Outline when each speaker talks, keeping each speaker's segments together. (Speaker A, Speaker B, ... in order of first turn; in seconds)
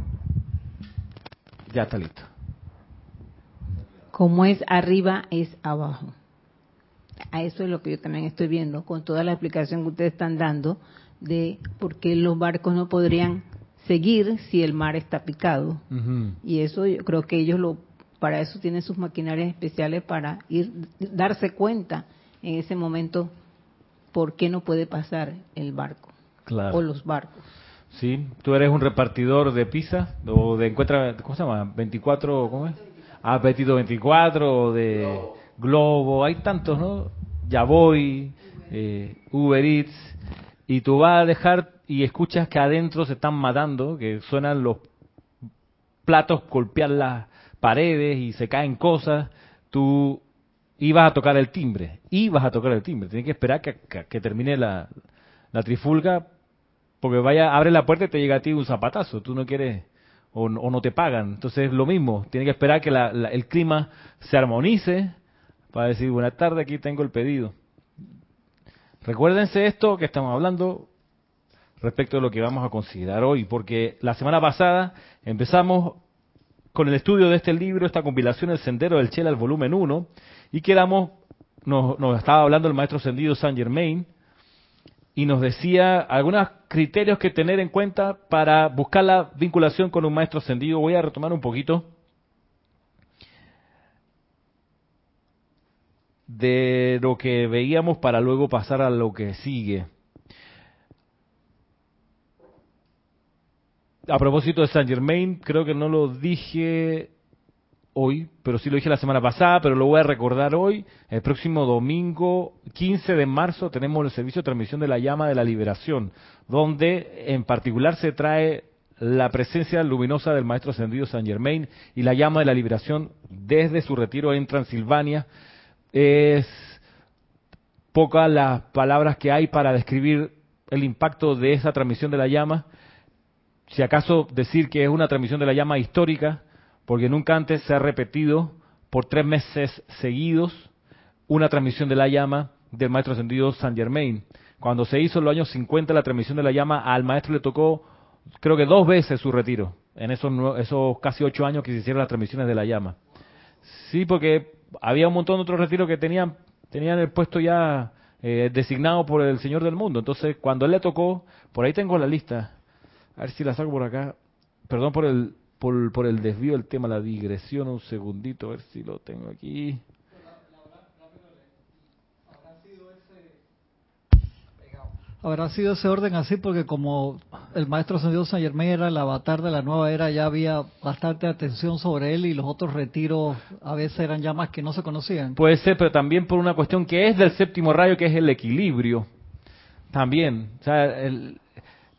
Speaker A: 1.7-2.3, 15.9-16.4, 26.5-26.8, 27.9-40.2, 40.7-44.9, 46.1-50.2, 50.8-54.9, 55.5-56.3, 57.0-65.2, 65.7-67.5, 69.0-70.9, 71.8-76.0, 76.7-84.1, 85.2-91.9, 96.3-99.9, 104.1-107.1, 108.0-125.3, 125.9-126.8, 127.9-132.7, 133.7-140.7, 141.3-147.8, 148.4-153.0, 153.7-162.5, 163.2-164.2, 164.7-169.8, 185.4-189.1, 189.9-191.4
Speaker B: 4.1-6.2, 7.3-15.8, 16.4-23.3, 24.1-26.1, 26.7-27.5
Speaker C: 170.7-171.2, 172.4-173.3, 175.2-185.4